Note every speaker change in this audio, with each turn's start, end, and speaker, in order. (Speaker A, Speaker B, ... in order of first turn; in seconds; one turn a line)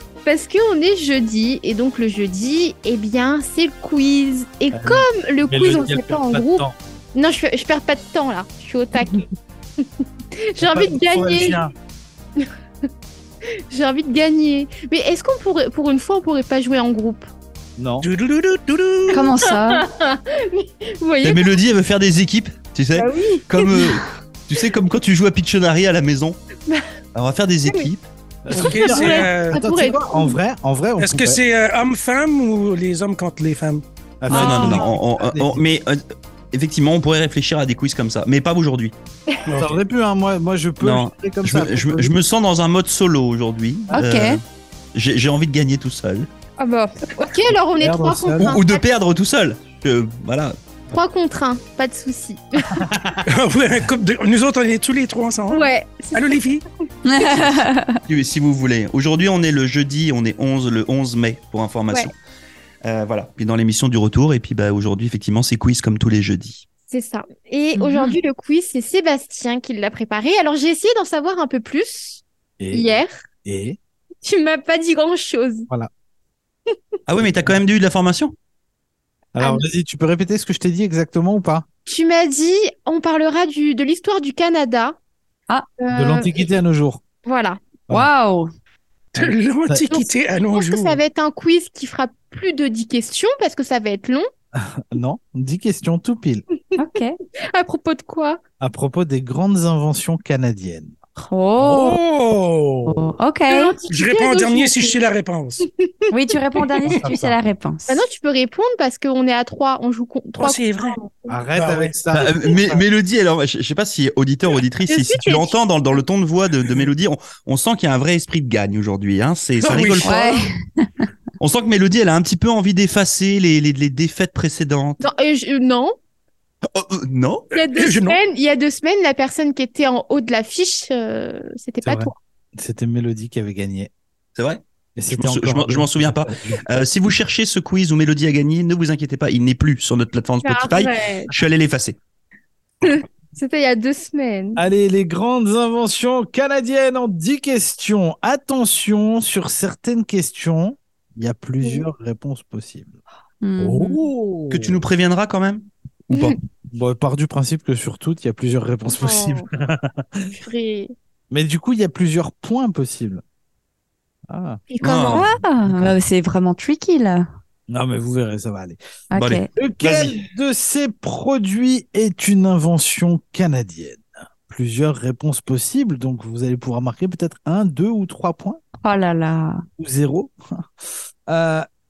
Speaker A: 0.2-11.6
Speaker B: 4.7-6.8
Speaker B: 10.6-11.7
Speaker A: 13.5-17.3
Speaker B: 17.8-18.1
Speaker C: 18.0-19.3
Speaker D: 19.1-19.8
Speaker A: 19.1-21.5
Speaker E: 21.2-26.4
Speaker A: 22.9-24.0
Speaker E: 27.1-28.1
Speaker B: 28.4-31.4
Speaker C: 28.5-29.6
Speaker A: 28.5-30.4
Speaker C: 31.0-33.8
Speaker B: 34.2-35.6
Speaker D: 34.3-34.9
Speaker E: 34.3-38.9
Speaker C: 39.5-39.7
Speaker B: 39.5-42.2
Speaker E: 40.8-44.4
Speaker D: 43.9-44.4
Speaker E: 44.9-46.3
Speaker A: 46.6-48.8
Speaker B: 47.8-48.6
Speaker E: 48.4-50.5
Speaker A: 50.9-52.9
Speaker B: 52.7-53.2
Speaker C: 53.2-56.6
Speaker A: 55.5-56.4
Speaker D: 57.0-58.0
Speaker A: 57.2-57.5
Speaker E: 58.1-62.1
Speaker E: 62.8-66.6
Speaker A: 66.9-73.1
Speaker D: 67.8-68.1
Speaker B: 72.6-73.8
Speaker A: 74.2-75.7
Speaker E: 77.1-78.3
Speaker B: 79.3-81.7
Speaker A: 81.8-85.0
Speaker A: 85.8-86.5
Speaker B: 85.9-87.0
Speaker A: 87.2-87.6
Speaker D: 87.9-88.5
Speaker C: 89.1-91.0
Speaker B: 89.2-89.9
Speaker A: 89.9-94.3
Speaker B: 94.5-96.5
Speaker D: 96.8-97.2
Speaker A: 97.5-98.4
Speaker B: 98.6-100.9
Speaker D: 101.2-102.0
Speaker C: 101.6-103.1
Speaker D: 102.8-103.7
Speaker A: 103.5-105.0
Speaker C: 103.9-105.7
Speaker A: 105.6-106.1
Speaker D: 106.1-108.0
Speaker B: 106.9-107.3
Speaker A: 107.9-111.4
Speaker C: 110.4-111.0
Speaker B: 111.3-112.5
Speaker C: 111.5-112.0
Speaker E: 112.1-120.1
Speaker A: 112.3-112.6
Speaker A: 114.9-115.6
Speaker C: 119.6-120.1
Speaker A: 120.0-120.4
Speaker D: 120.0-121.1
Speaker E: 121.4-125.0
Speaker A: 125.0-125.9
Speaker E: 126.7-127.5
Speaker C: 127.5-128.2
Speaker A: 127.5-132.1
Speaker B: 131.8-133.9
Speaker E: 134.3-142.0
Speaker B: 134.9-136.6
Speaker A: 140.4-141.3
Speaker A: 142.8-144.6
Speaker B: 144.6-153.0
Speaker A: 151.6-151.9
Speaker D: 153.4-154.0
Speaker B: 153.6-154.8
Speaker E: 154.5-156.4
Speaker A: 156.1-156.4
Speaker B: 156.7-160.4
Speaker A: 159.0-159.5
Speaker A: 160.4-160.9
Speaker B: 161.3-163.2
Speaker B: 164.3-164.6
Speaker A: 164.7-165.3
Speaker E: 164.8-165.2
Speaker D: 165.1-167.3
Speaker B: 165.6-165.9
Speaker B: 167.7-168.8
Speaker D: 169.1-169.5
Speaker E: 169.1-170.1
Speaker B: 169.5-178.6
Speaker D: 178.8-179.6
Speaker B: 179.8-180.7
Speaker B: 181.3-181.7